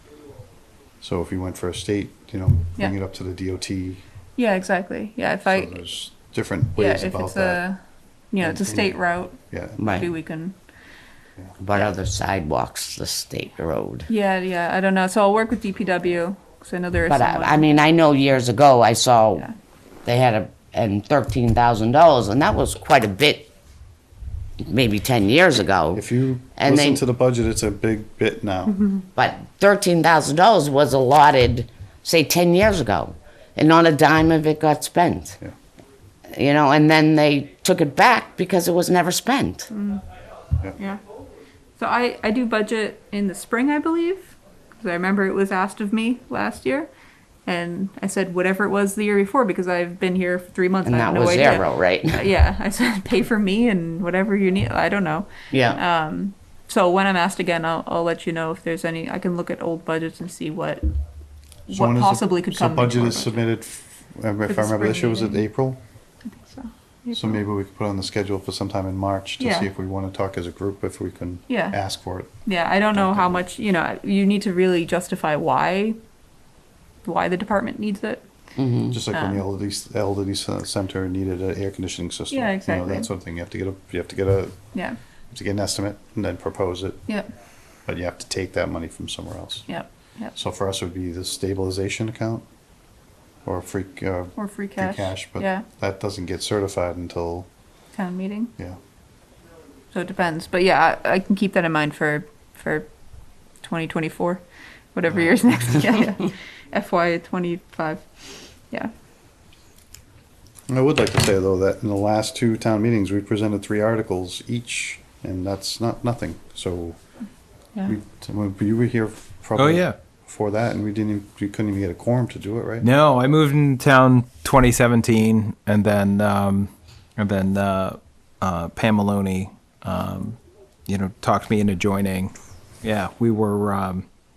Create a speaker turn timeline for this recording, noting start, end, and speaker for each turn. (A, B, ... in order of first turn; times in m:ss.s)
0:01.0-0:04.0 A
0:04.4-0:05.7 B
0:05.4-0:07.6 A
0:06.8-0:07.8 B
0:08.3-0:09.4 B
0:08.4-0:08.9 A
0:09.5-0:10.0 A
0:09.8-0:10.1 C
0:09.9-0:10.5 B
0:11.6-0:14.1 C
0:14.1-0:17.6 B
0:17.1-0:19.5 C
0:20.0-0:23.5 C
0:24.6-0:26.0 C
0:25.9-0:28.8 A
0:26.6-0:27.0 C
0:29.2-0:35.4 C
0:36.3-0:39.7 C
0:39.7-0:40.0 B
0:41.8-0:46.9 B
0:47.4-1:00.8 B
0:50.8-0:52.2 C
0:55.5-0:55.8 C
1:01.7-1:03.4 B
1:01.7-1:05.8 A
1:04.5-1:05.4 B
1:06.3-1:07.4 B
1:07.1-1:12.3 A
1:09.4-1:09.7 B
1:11.5-1:11.8 B
1:12.4-1:16.0 B
1:12.9-1:13.4 A
1:17.0-1:18.2 B
1:18.6-1:19.0 C
1:18.9-1:24.6 A
1:19.1-1:19.4 B
1:22.3-1:23.1 B
1:25.3-1:27.0 A
1:27.9-1:29.7 A
1:29.7-1:30.3 B
1:30.3-1:32.4 A
1:33.4-1:37.5 A
1:34.4-1:35.6 B
1:37.9-1:38.5 B
1:39.9-1:42.9 B
1:43.6-1:44.4 B
1:44.9-1:48.0 B
1:50.7-1:57.0 A
1:57.8-2:02.8 A
1:59.6-2:00.0 D
2:02.8-2:14.0 D